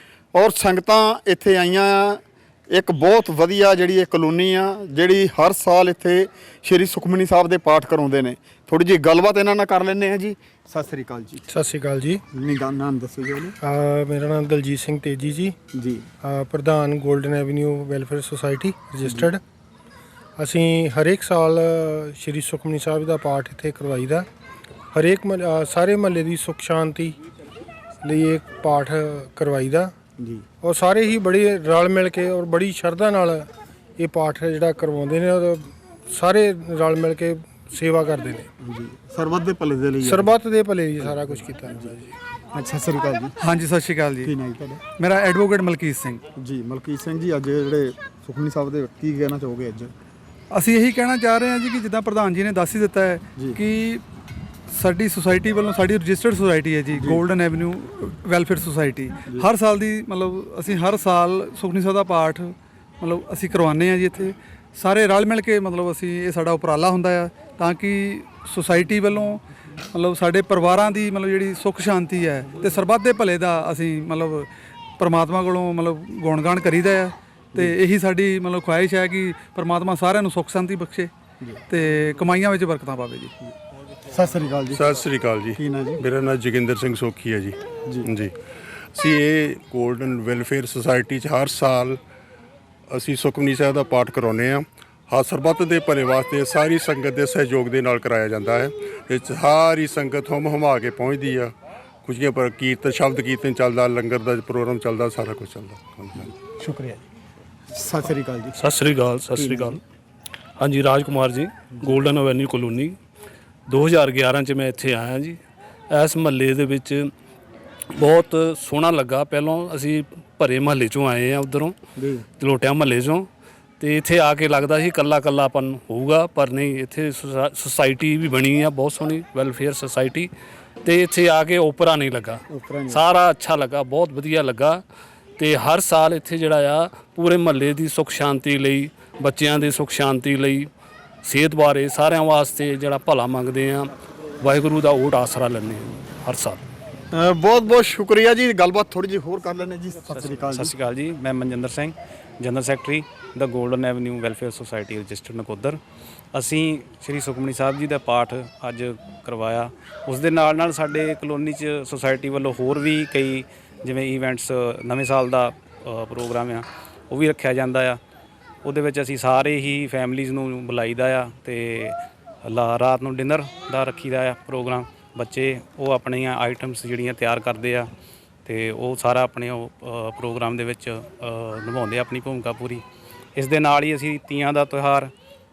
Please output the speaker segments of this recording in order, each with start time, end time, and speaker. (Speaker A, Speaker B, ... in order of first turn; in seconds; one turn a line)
Speaker A: 0.3-11.5
Speaker B: 11.5-12.2
Speaker A: 12.3-13.6
Speaker B: 13.6-15.6
Speaker A: 15.7-16.1
Speaker B: 16.2-19.4
Speaker B: 20.4-24.3
Speaker B: 24.9-27.2
Speaker B: 28.0-29.9
Speaker A: 30.2-30.4
Speaker B: 30.6-38.5
Speaker A: 38.6-40.3
Speaker B: 40.0-42.1
Speaker A: 41.0-42.0
Speaker A: 42.5-43.4
Speaker C: 43.4-44.3
Speaker A: 44.2-44.8
Speaker C: 45.0-46.2
Speaker A: 46.4-49.9
Speaker C: 50.5-54.0
Speaker C: 54.7-81.1
Speaker A: 57.0-57.2
Speaker C: 81.7-83.3
Speaker A: 84.1-85.0
Speaker D: 84.7-88.3
Speaker A: 85.5-86.0
Speaker D: 89.0-92.0
Speaker D: 92.9-101.5
Speaker D: 102.0-106.3
Speaker A: 106.4-107.0
Speaker A: 107.7-108.6
Speaker E: 108.6-109.8
Speaker A: 109.3-109.8
Speaker E: 110.6-113.0
Speaker E: 113.7-115.4
Speaker E: 115.9-117.1
Speaker E: 117.9-121.8
Speaker A: 122.0-122.2
Speaker E: 122.4-123.3
Speaker E: 123.8-130.3
Speaker E: 130.8-134.8
Speaker A: 132.5-133.0
Speaker E: 135.4-140.7
Speaker E: 141.2-146.6
Speaker A: 147.1-150.7
Speaker F: 150.1-155.8
Speaker F: 156.3-168.0
Speaker F: 168.6-177.9
Speaker F: 178.4-182.8
Speaker F: 183.4-185.1